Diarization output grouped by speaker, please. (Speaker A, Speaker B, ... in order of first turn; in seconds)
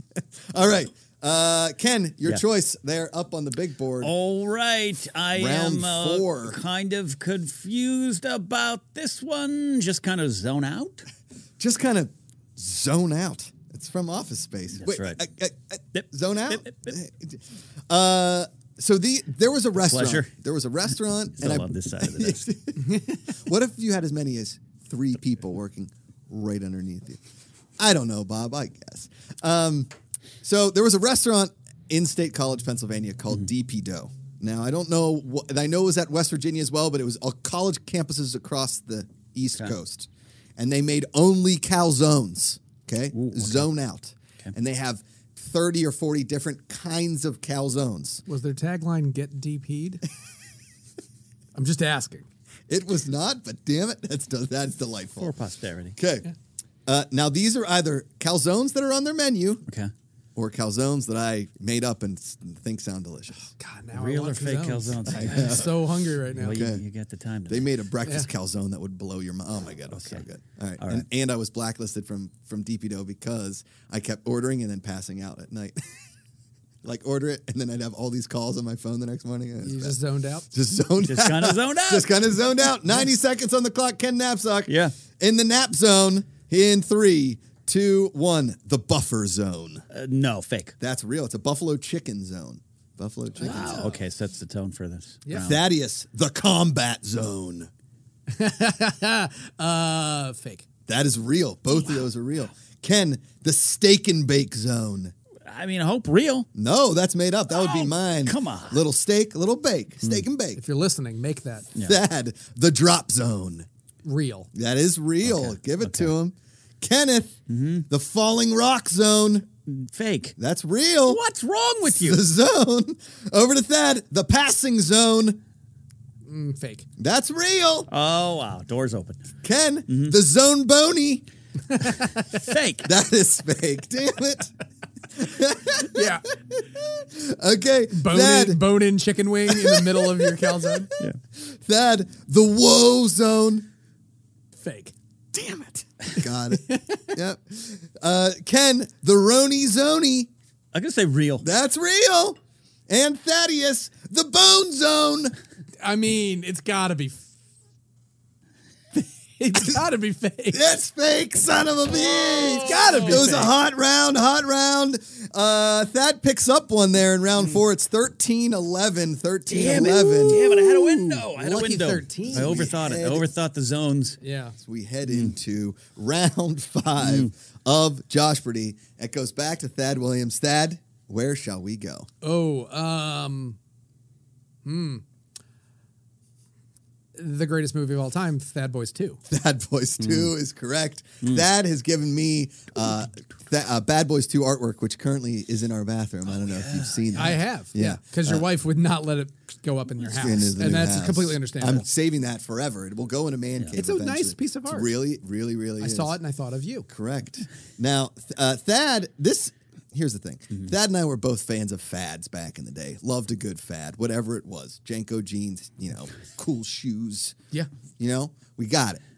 Speaker A: 0.1-4.1, 5.3-6.6, 11.6-27.2, 27.8-29.9, 30.4-48.2, 52.7-55.3, 56.0-56.3, 56.9-59.6, 60.4-63.5, 65.1-65.9, 66.4-66.8, 67.5-76.0, 76.8-80.0, 80.5-89.8, 90.8-93.9, 95.4-97.7, 100.9-105.1, 106.5-110.6, 111.8-113.7, 114.5-119.5, 120.4-121.2, 121.9-125.4, 127.0-127.9, 129.4-131.2, 132.8-134.5, 135.2-138.6, 139.5-143.7, 145.3-150.3, 151.4-155.3, 160.5-170.4, 172.2-173.3, 174.6-182.1, 189.3-198.4, 200.1-206.2, 206.9-217.4, 218.0-219.0
Speaker B: 4.0-11.1, 14.8-15.2, 15.9-17.0, 19.8-20.3, 21.4-22.5, 43.1-43.7, 55.2-56.0, 63.9-67.7, 69.9-70.2, 70.8-71.0, 81.0-82.1, 84.7-84.9, 89.9-90.8, 93.4-95.6, 105.5-106.5, 107.5-108.8, 115.2-116.1, 117.5-117.9, 119.7-120.4, 121.1-122.2, 127.9-129.3, 129.9-130.2, 131.9-132.9, 150.7-151.5, 162.0-163.5, 169.5-174.2, 177.0-177.3, 190.0-190.3, 196.3-197.4
Speaker C: 22.9-23.2, 48.3-50.0, 51.5-52.3, 63.5-66.6, 79.6-80.5, 93.4-94.0, 95.3-95.5, 98.3-100.7, 110.6-111.7, 114.0-114.5, 126.3-126.9, 131.7-132.3, 135.8-136.3, 137.9-140.9, 144.6-144.9, 146.5-147.2, 155.8-157.3, 158.9-160.8, 162.5-163.5, 169.7-172.7, 174.2-174.6, 182.2-183.6, 184.7-185.0, 187.2-189.2, 197.2-201.9, 203.7-204.9, 205.8-206.9